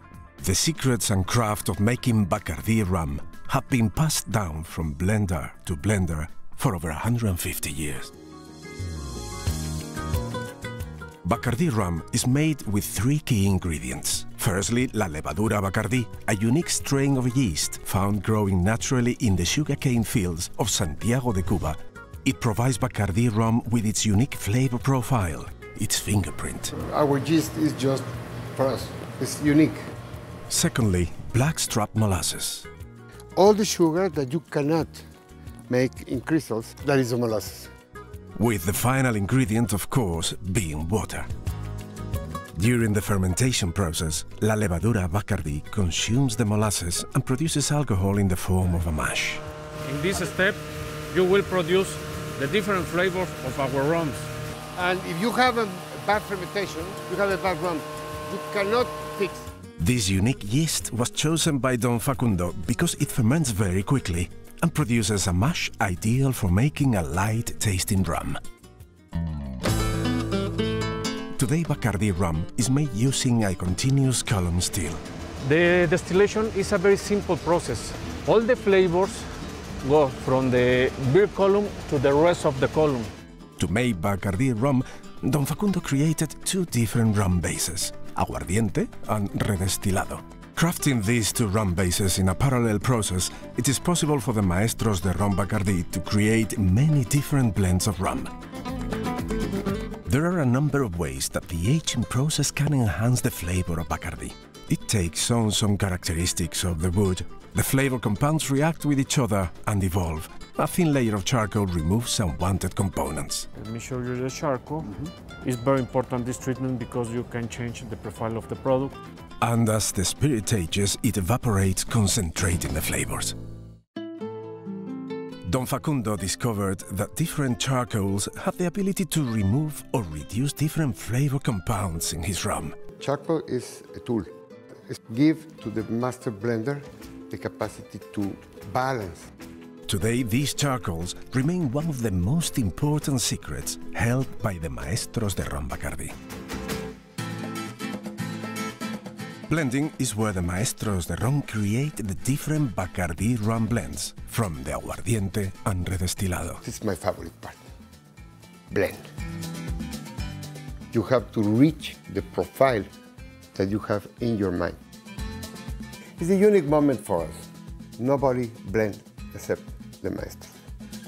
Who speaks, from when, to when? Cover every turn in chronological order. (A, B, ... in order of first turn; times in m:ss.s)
0:00.4-0:08.1 A
0:11.2-0:26.7 A
0:26.8-0:29.9 B
0:30.5-0:32.7 A
0:33.4-0:35.0 B
0:35.7-0:37.7 B
0:38.4-0:41.3 A
0:42.5-0:49.4 A
0:49.8-0:54.3 C
0:54.8-0:59.5 B
0:59.8-1:08.4 A
1:11.4-1:15.0 A
1:15.4-1:19.2 C
1:19.8-1:23.1 C
1:23.6-1:38.3 A
1:40.0-1:53.5 A
1:53.6-1:59.0 C
1:59.4-2:03.4 A
2:05.4-2:12.8 A
2:13.0-2:14.3 B
2:14.9-2:19.3 B
2:19.9-2:26.1 A
2:29.5-2:36.6 A
2:36.6-2:37.6 B
2:38.7-2:39.0 B
2:40.9-2:42.9 B
2:43.5-2:44.8 B
2:46.2-2:50.5 B